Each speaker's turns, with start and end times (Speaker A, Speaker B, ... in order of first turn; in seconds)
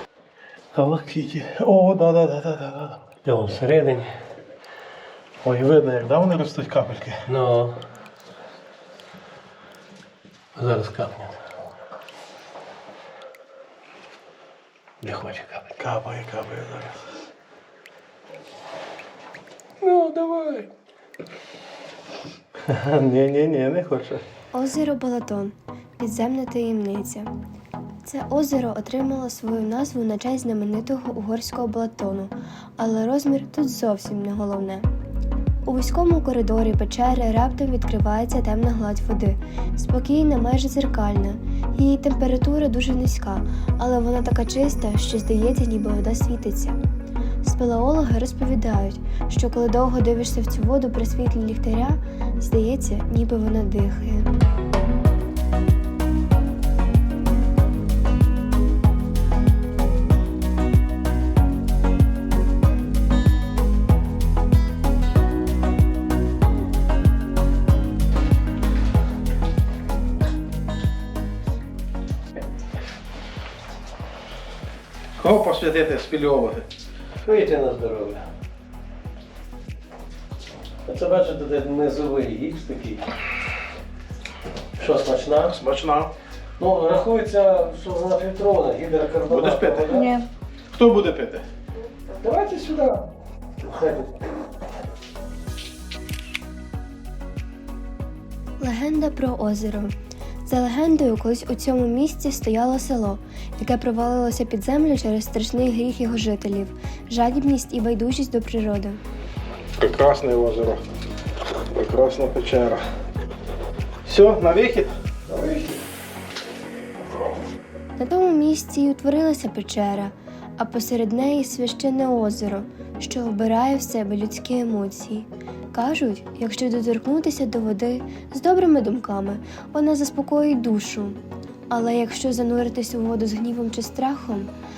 Speaker A: 0.7-3.1, 5.4-7.3, 15.8-17.0, 22.6-24.2, 75.2-76.7, 85.4-86.1, 89.3-90.0, 90.7-91.5, 109.8-110.9, 111.7-112.8, 114.0-114.9
Speaker B: 3.2-4.1, 7.3-7.8, 10.5-11.4, 15.0-15.8, 19.8-20.7, 77.2-78.2, 80.8-83.0, 84.8-85.6, 86.6-90.1, 92.2-93.1, 93.6-94.3, 115.2-115.8
Speaker C: 24.5-27.3, 28.0-34.9, 35.6-46.8, 47.4-54.3, 98.6-99.9, 100.5-109.0, 118.0-134.5